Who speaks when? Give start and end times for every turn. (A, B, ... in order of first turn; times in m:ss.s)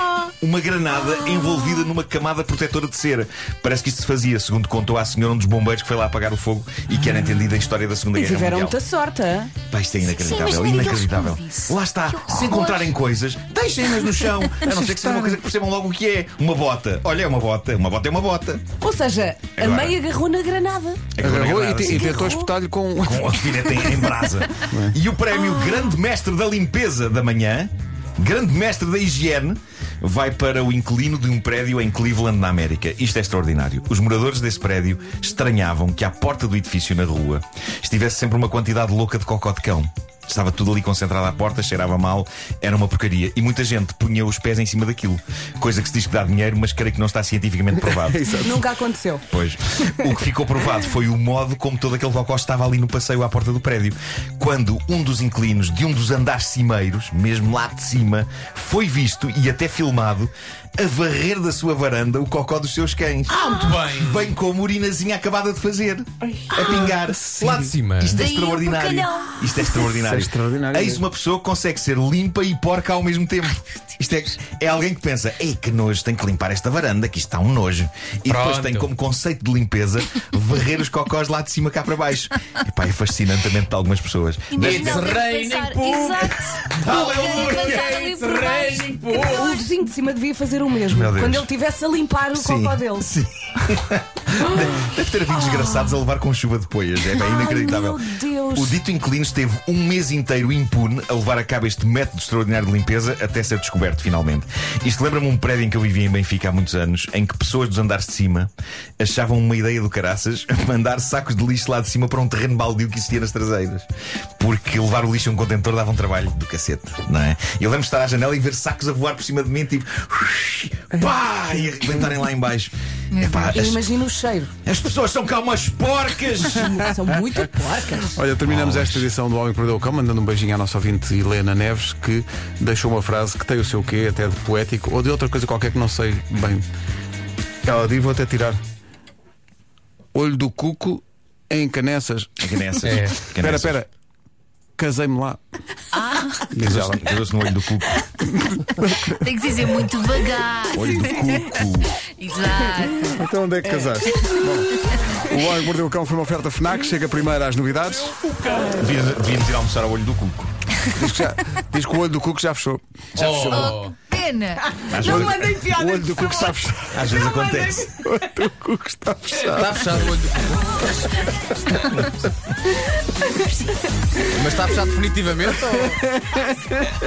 0:00.4-0:08.8 A
0:08.2-0:09.5 B
0:09.7-0:18.6 A
0:10.0-0:12.9 C
0:14.7-0:15.4 D
0:18.8-0:21.0 B
0:19.6-0:20.0 A
0:21.1-0:22.2 A
0:21.2-0:24.0 D
0:21.8-0:22.5 B
0:23.0-0:48.3 A
0:24.7-0:25.0 D
0:47.9-0:48.6 D
0:48.4-0:49.2 B
0:49.3-1:25.2 A
1:03.3-1:04.4 E
1:06.2-1:07.7 D
1:07.4-1:08.2 E
1:08.1-1:09.9 C
1:09.9-1:11.0 D
1:18.3-1:18.9 E
1:24.5-1:29.6 C
1:24.6-1:29.6 E
1:26.7-1:27.8 A
1:27.6-1:33.1 B
1:30.9-1:31.5 A
1:32.3-1:38.0 A
1:37.2-1:38.8 B
1:38.5-1:53.9 A
1:54.4-2:03.9 A
2:03.1-2:03.6 C
2:03.5-2:04.5 B
2:04.6-2:06.8 A
2:06.5-2:08.2 B
2:06.8-2:07.4 D
2:08.0-2:16.6 D
2:08.4-2:09.0 A
2:17.6-2:18.6 D
2:20.1-2:22.4 D
2:22.4-2:23.8 A
2:22.8-2:23.2 E
2:23.3-2:23.9 D
2:24.8-2:25.4 D
2:25.9-2:26.5 C
2:26.5-2:27.1 D
2:26.6-2:28.0 A
2:28.4-2:29.2 D
2:29.0-2:33.2 C
2:30.7-2:31.9 A
2:33.0-2:38.2 D
2:33.7-2:34.6 B
2:38.3-2:38.8 B
2:38.7-2:40.5 A
2:40.9-2:42.8 D
2:43.1-2:43.9 E
2:43.2-2:43.7 A
2:43.3-2:44.7 C
2:44.6-2:46.6 B
2:44.9-2:45.4 A
2:45.0-2:47.1 D
2:46.9-2:47.9 A
2:47.1-2:48.1 B
2:48.0-2:50.0 D
2:49.4-2:51.1 E
2:51.1-2:52.1 D
2:54.2-2:56.0 E
2:56.2-2:56.9 D